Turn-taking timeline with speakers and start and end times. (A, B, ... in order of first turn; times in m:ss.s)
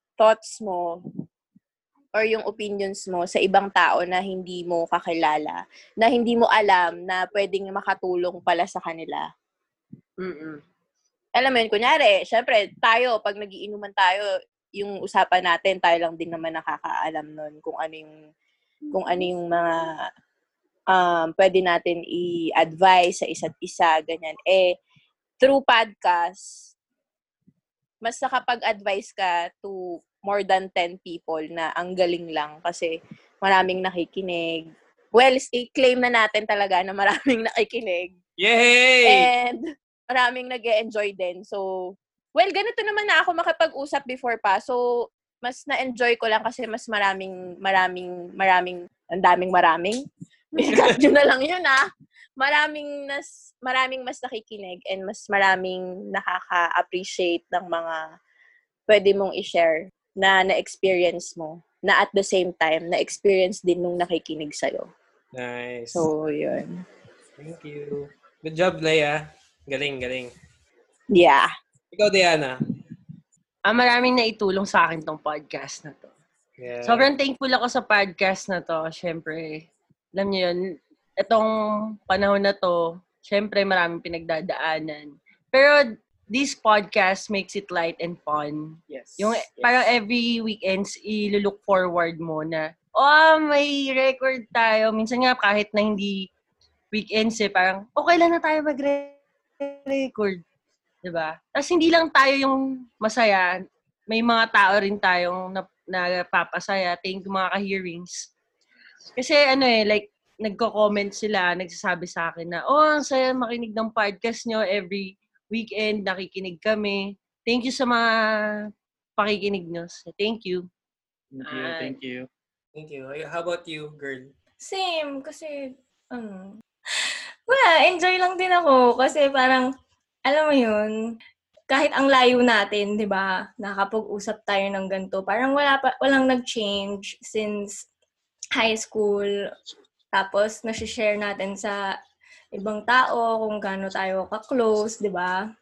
0:00.2-0:00.9 A
0:02.1-0:09.2 A
0:10.2-0:10.6 B
0:11.4-0:14.2 A
0:14.8-0:18.1 A
0:18.9-0:19.8 A
0:20.9-0:24.7 A
0:25.4-0:26.4 A
0:28.0-0:38.1 A
0:38.4-0:39.3 C
0:39.0-0:41.6 A
0:42.3-0:44.8 A
0:45.4-0:50.0 A
0:50.6-0:51.8 A
0:52.4-0:58.0 A
0:58.9-1:04.9 A
1:05.3-1:06.0 C
1:05.9-1:06.7 A
1:07.4-1:10.3 C
1:11.1-1:11.5 A
1:11.9-1:12.6 C
1:13.6-1:16.1 B
1:16.6-1:17.1 C
1:16.8-1:20.6 B
1:21.2-1:36.3 B
1:28.9-1:29.8 D
1:36.9-1:40.4 B
1:41.0-1:43.5 B
1:44.1-1:48.3 B
1:49.2-1:58.1 B
1:59.2-2:00.6 B
2:01.3-2:02.3 D
2:01.4-2:01.9 B
2:02.7-2:04.3 C
2:04.6-2:06.5 E
2:07.5-2:09.7 E
2:10.2-2:10.9 E
2:11.7-2:17.8 E
2:18.6-2:19.3 E
2:20.1-2:21.8 E
2:22.5-2:25.4 E